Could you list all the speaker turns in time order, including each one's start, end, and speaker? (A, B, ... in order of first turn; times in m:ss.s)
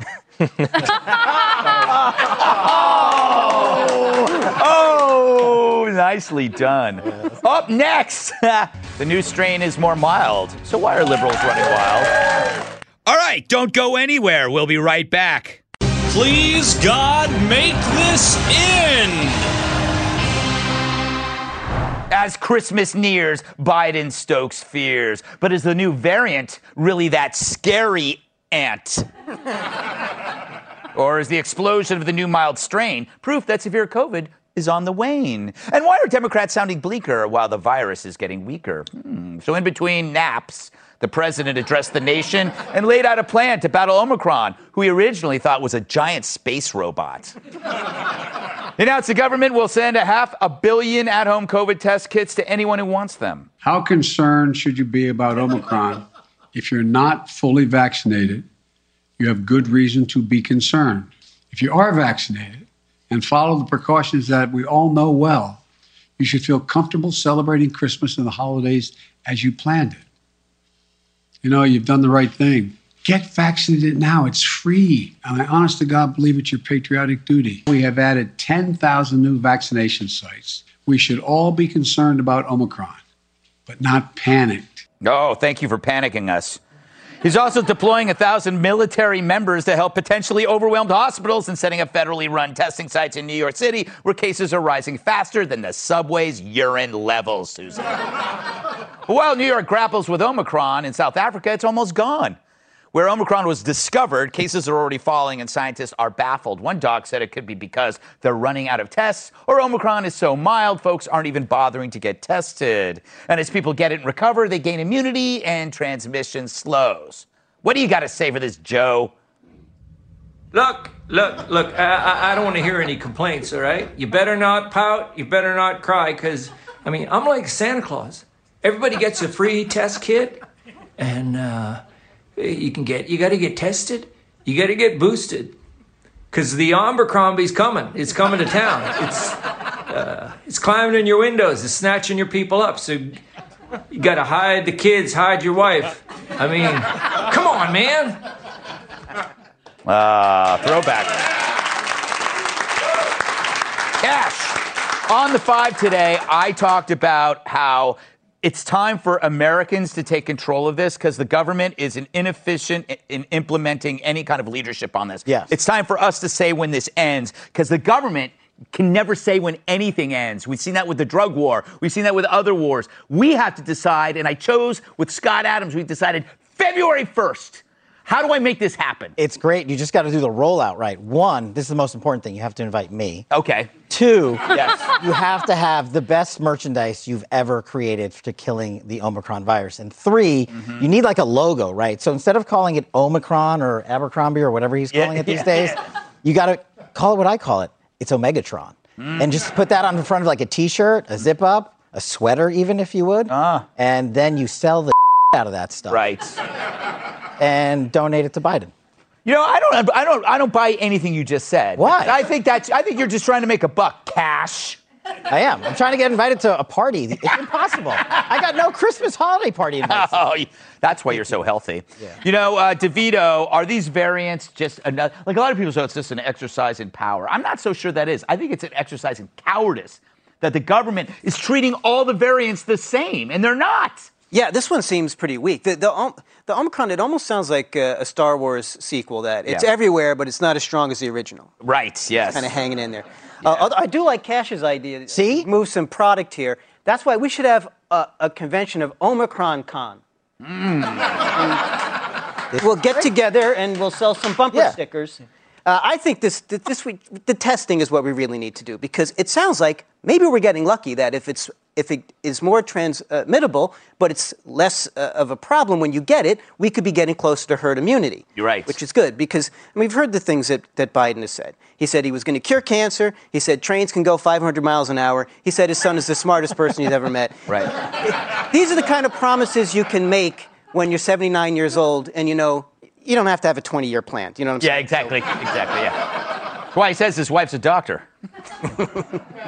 0:00.6-0:00.8 A
0:00.9-0:12.1 B
0:13.0-0:15.6 B
0:16.2-0:19.4 A
0:22.1-0:29.1 B
0:30.9-0:47.4 B
0:48.8-0:53.5 B
0:53.6-0:58.4 C
0:59.2-1:05.6 C
1:06.2-1:10.0 C
1:11.4-1:23.0 C
1:23.7-1:24.8 C
1:25.0-1:26.6 B
1:27.2-1:37.9 B
1:39.1-1:42.4 B
1:42.9-1:59.1 B
2:00.5-2:10.4 D
2:11.0-2:11.8 D
2:12.4-2:15.6 D
2:16.3-2:23.2 D
2:23.9-2:28.2 D
2:29.8-2:31.2 B
2:34.0-2:59.2 B
2:59.2-3:03.3 E
3:03.3-3:03.7 B
3:03.9-3:26.0 E
3:04.5-3:04.9 B
3:10.5-3:10.9 B
3:14.9-3:15.8 B
3:19.0-3:19.3 B
3:23.3-3:23.6 B
3:25.9-3:26.4 B
3:27.4-3:28.7 E
3:29.2-3:34.8 B
3:31.8-3:32.2 E
3:35.3-3:40.2 E
3:39.8-3:54.1 B
3:54.3-4:01.5 F
4:01.6-4:02.5 B
4:02.3-4:10.0 F
4:05.1-4:05.5 E
4:10.4-4:11.3 B
4:12.6-4:13.0 E
4:12.6-4:37.4 F
4:28.4-4:28.8 B
4:38.0-4:45.2 F
4:44.6-4:48.0 B